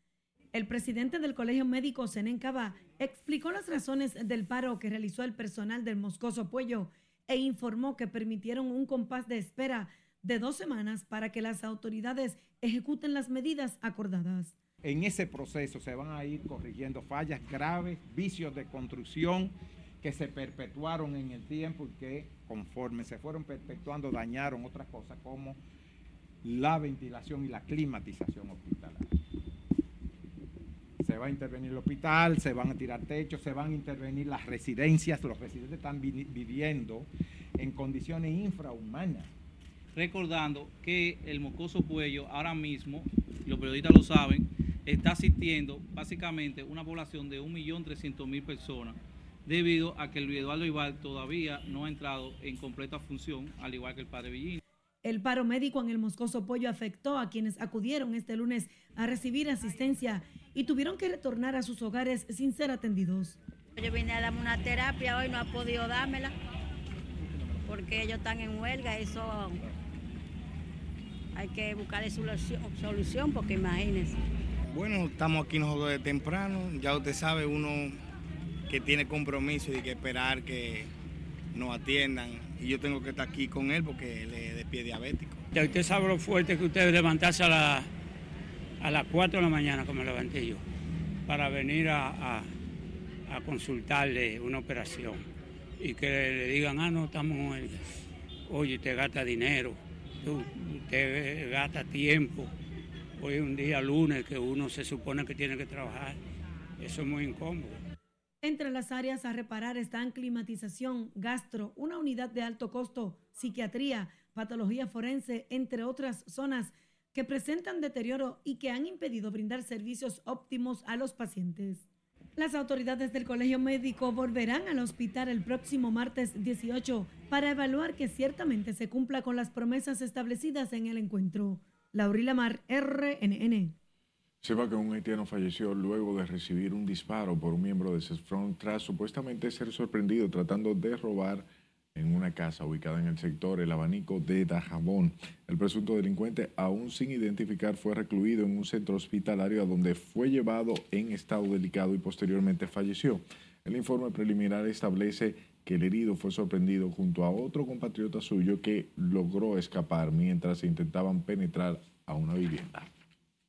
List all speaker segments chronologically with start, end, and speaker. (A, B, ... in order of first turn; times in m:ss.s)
0:00.5-0:14.6 A
0:14.8-0:25.6 B
0:26.4-0:29.1 B
0:31.0-0:37.1 B
0:37.6-0:39.3 B
0:40.1-0:42.7 C
0:43.6-0:43.9 C
0:45.0-0:48.9 C
0:49.5-0:54.6 C
0:55.0-1:03.4 A
1:03.8-1:06.3 D
1:07.7-1:09.6 D
1:11.4-1:14.2 D
1:14.8-1:17.9 E
1:18.7-1:20.8 E
1:21.6-1:25.4 E
1:25.5-1:27.9 F
1:28.8-1:30.6 F
1:31.3-1:32.5 F
1:33.3-1:35.2 F
1:35.8-1:37.8 F
1:38.5-1:42.5 F
1:43.2-1:46.2 F
1:46.8-1:47.8 F
1:48.4-2:01.8 A
2:02.4-2:13.8 A
2:14.4-2:42.9 G